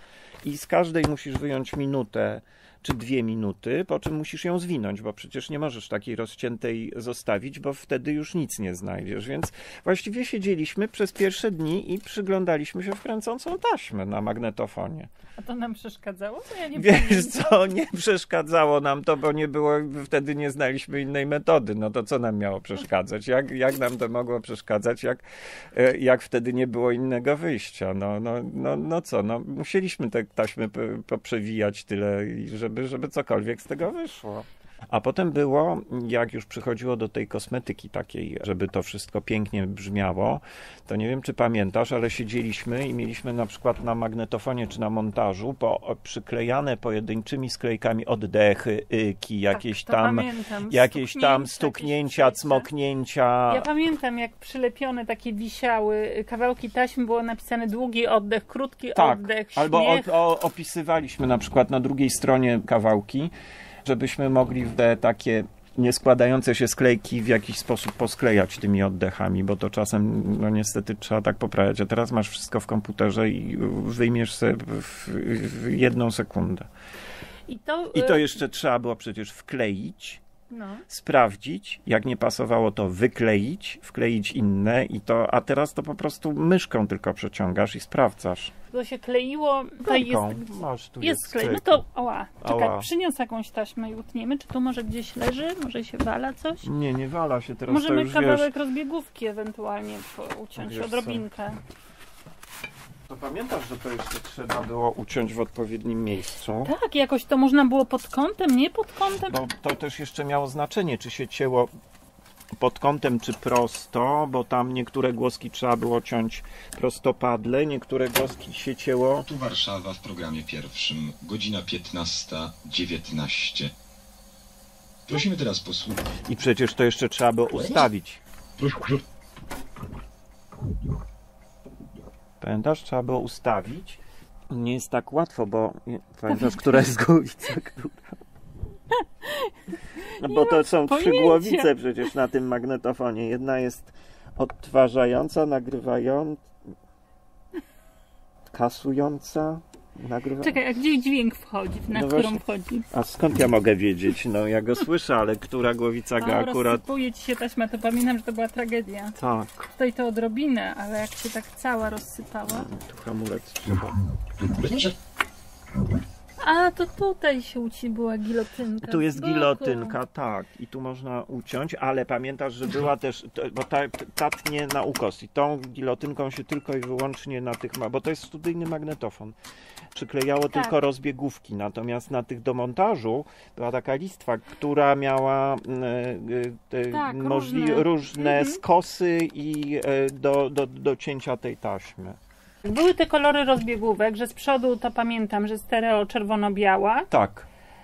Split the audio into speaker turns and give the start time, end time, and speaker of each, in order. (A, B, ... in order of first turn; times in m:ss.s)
0:00.4-0:15.1 A
0:15.4-0:17.6 B
0:16.8-0:53.7 A
0:49.5-0:52.7 B
0:53.5-1:00.1 B
0:59.0-1:03.3 A
1:03.8-1:16.7 A
1:17.5-1:18.2 B
1:17.9-1:20.2 A
1:20.5-1:20.8 B
1:20.9-1:28.5 A
1:28.7-1:30.5 B
1:29.8-1:31.8 A
1:31.0-1:36.7 B
1:32.4-1:32.9 A
1:36.6-1:38.5 A
1:37.7-1:41.6 B
1:40.6-1:41.2 A
1:43.1-1:46.7 A
1:46.6-1:49.4 B
1:49.3-1:51.7 A
1:52.6-1:59.3 A
1:59.2-2:03.7 C
2:05.1-2:06.2 C
2:06.2-2:08.2 A
2:08.6-2:09.0 C
2:12.4-2:18.2 A
2:18.9-2:21.7 B
2:20.2-2:26.4 A
2:28.5-2:30.6 A
2:30.4-2:32.9 B
2:31.9-2:36.8 A
2:36.2-2:39.2 B
2:39.2-2:39.7 A
2:39.8-2:42.7 B
2:42.5-2:44.0 A
2:46.4-2:50.0 B
2:48.8-2:59.4 A
2:59.9-3:12.2 A
3:06.9-3:08.6 B
3:12.6-3:17.1 B
3:17.1-3:17.5 A